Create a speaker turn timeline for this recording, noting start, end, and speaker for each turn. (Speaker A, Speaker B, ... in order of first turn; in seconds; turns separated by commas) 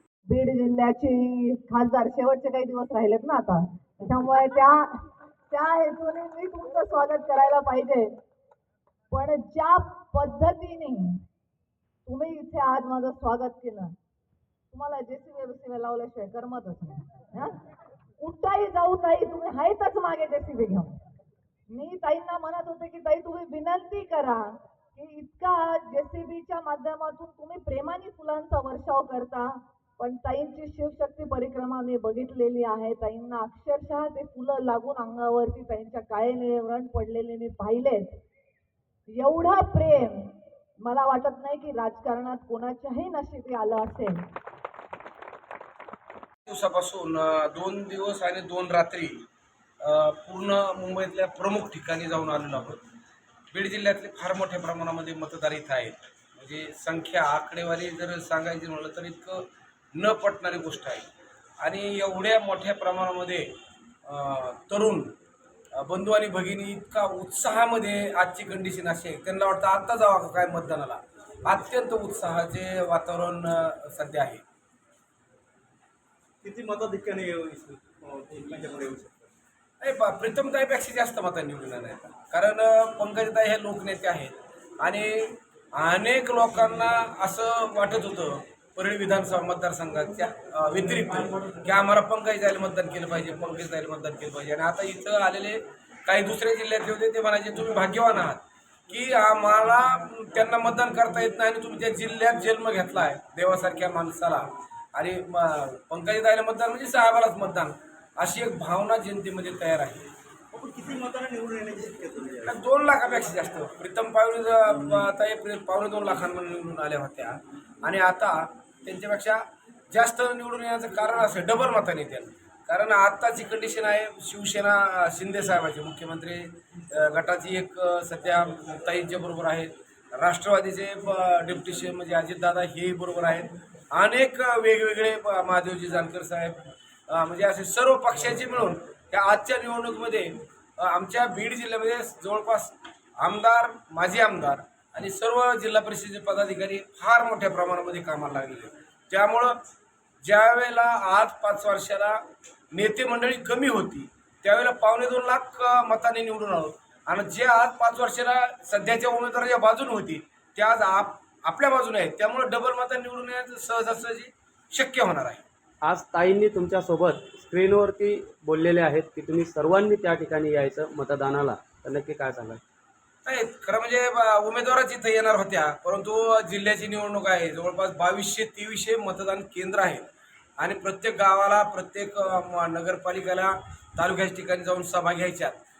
Speaker A: 0.3-5.0, Speaker A: 5.5-8.2, Speaker A: 9.1-11.2, Speaker A: 12.1-13.9, Speaker A: 14.7-17.6, Speaker A: 18.2-21.0, Speaker A: 21.7-38.2, Speaker A: 39.1-44.2, Speaker B: 46.5-49.2, Speaker B: 49.8-52.8, Speaker B: 53.5-61.1, Speaker B: 61.6-63.5, Speaker B: 64.1-65.1, Speaker B: 65.8-74.4, Speaker C: 76.4-79.3, Speaker B: 79.8-110.1, Speaker C: 110.5-112.6, Speaker B: 112.5-149.6, Speaker B: 150.2-152.2, Speaker B: 152.7-165.4, Speaker D: 165.8-172.6, Speaker B: 173.2-180.1, Speaker B: 180.6-185.6